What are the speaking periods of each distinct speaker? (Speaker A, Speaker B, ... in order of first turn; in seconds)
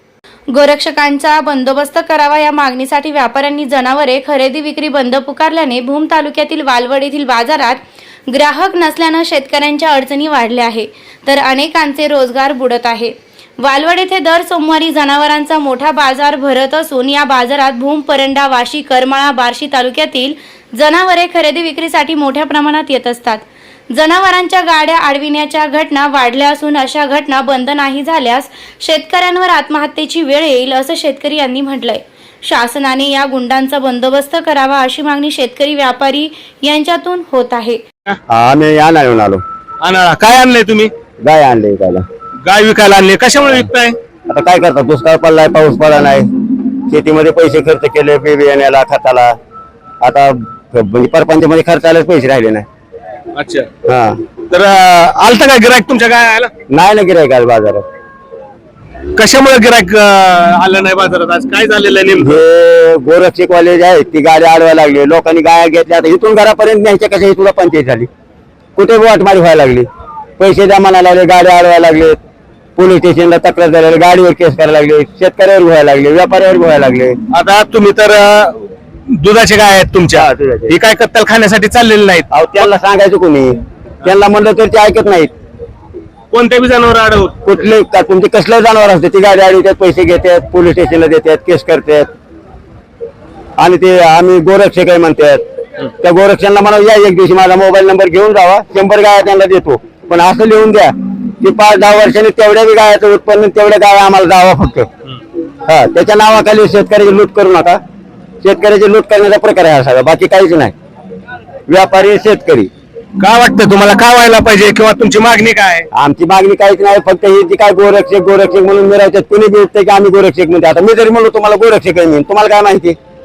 Speaker A: 0.5-37.8
Speaker B: 38.3-39.4, 41.2-42.0, 44.3-46.3, 46.9-49.4, 50.0-52.7, 53.9-54.2, 56.7-57.9, 62.2-68.1, 68.8-69.9, 70.4-72.2, 72.8-77.2, 80.1-80.8, 82.3-85.3, 87.5-92.1, 93.6-95.4, 96.0-104.9, 105.7-107.8, 108.4-110.7, 111.7-112.7, 115.9-123.0
Speaker C: 39.8-40.9, 42.4-44.0, 53.4-53.7, 54.5-56.5, 59.2-62.4, 77.3-82.7, 86.3-87.4, 113.2-115.9